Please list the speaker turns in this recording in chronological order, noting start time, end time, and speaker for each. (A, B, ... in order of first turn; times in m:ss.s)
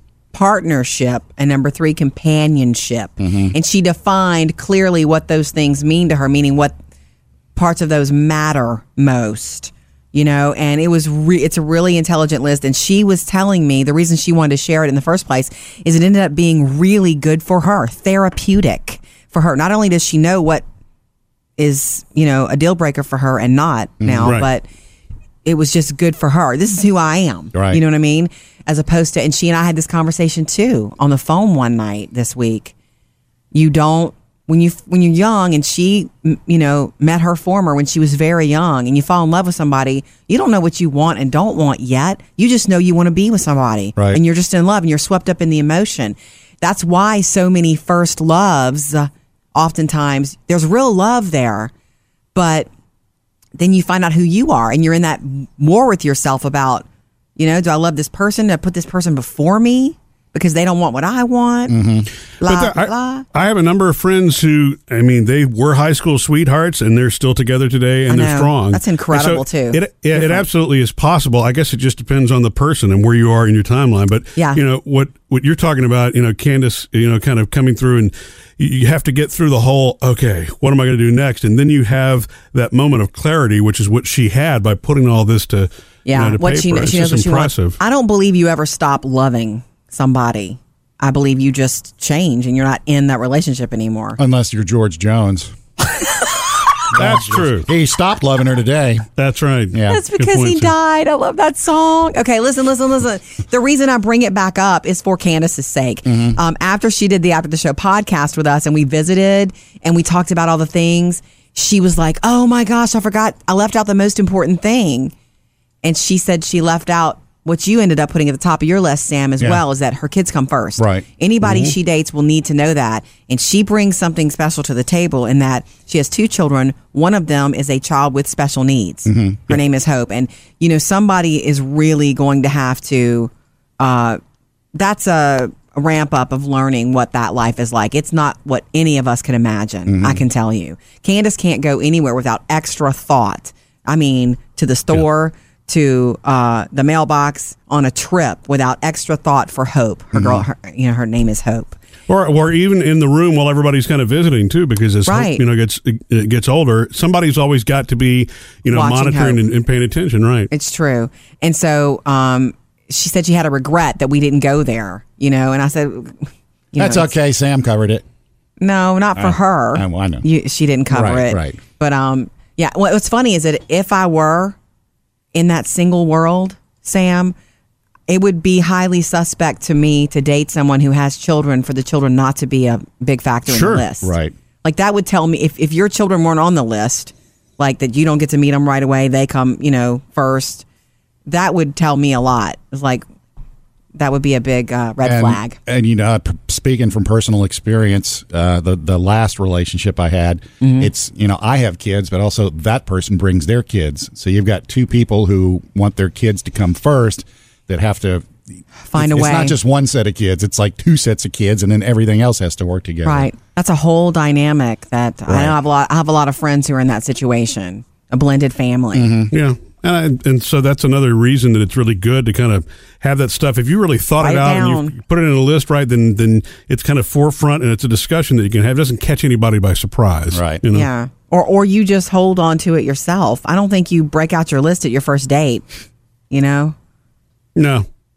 0:00.3-0:06.7 A
0:03.2-0:03.5 B
0:07.5-0:20.6 A
0:21.6-0:24.6 A
0:24.0-0:24.4 B
0:25.4-0:32.7 A
0:27.5-0:27.8 B
0:33.5-0:51.7 A
0:52.3-0:52.7 A
0:53.6-0:56.8 A
0:57.4-1:01.8 A
1:01.7-1:02.1 B
1:02.4-1:03.3 A
1:02.4-1:27.8 C
1:08.1-1:10.4 A
1:14.4-1:14.6 A
1:26.0-1:34.2 A
1:34.2-1:35.5 B
1:36.9-1:39.1 B
1:36.9-1:37.7 C
1:39.2-1:40.7 C
1:39.7-1:40.0 B
1:39.9-1:55.1 A
1:46.1-1:46.4 B
1:55.8-2:14.2 A
2:00.8-2:01.7 B
2:09.1-2:09.6 B
2:14.7-2:31.8 A
2:19.9-2:20.2 B
2:30.1-2:30.4 B
2:32.1-2:40.5 C
2:35.0-2:35.4 A
2:38.7-2:39.4 A
2:40.5-2:47.1 A
2:46.8-2:48.0 B
2:48.6-2:54.6 A
2:49.2-2:50.2 B
2:50.9-2:51.6 B
2:55.3-2:57.3 A
2:58.1-3:04.1 A
3:03.5-3:04.3 B
3:04.6-3:10.6 A
3:11.3-3:13.0 A
3:13.9-3:15.6 A
3:15.0-3:28.3 B
3:20.6-3:20.9 A
3:28.8-3:29.6 A
3:28.9-3:33.3 B
3:33.0-3:39.1 A
3:35.3-3:35.5 B
3:38.9-3:39.3 B
3:39.3-3:50.9 C
3:44.2-3:44.9 A
3:50.3-3:50.6 B
3:50.7-3:55.6 A
3:56.3-3:56.7 A
3:57.6-3:57.8 C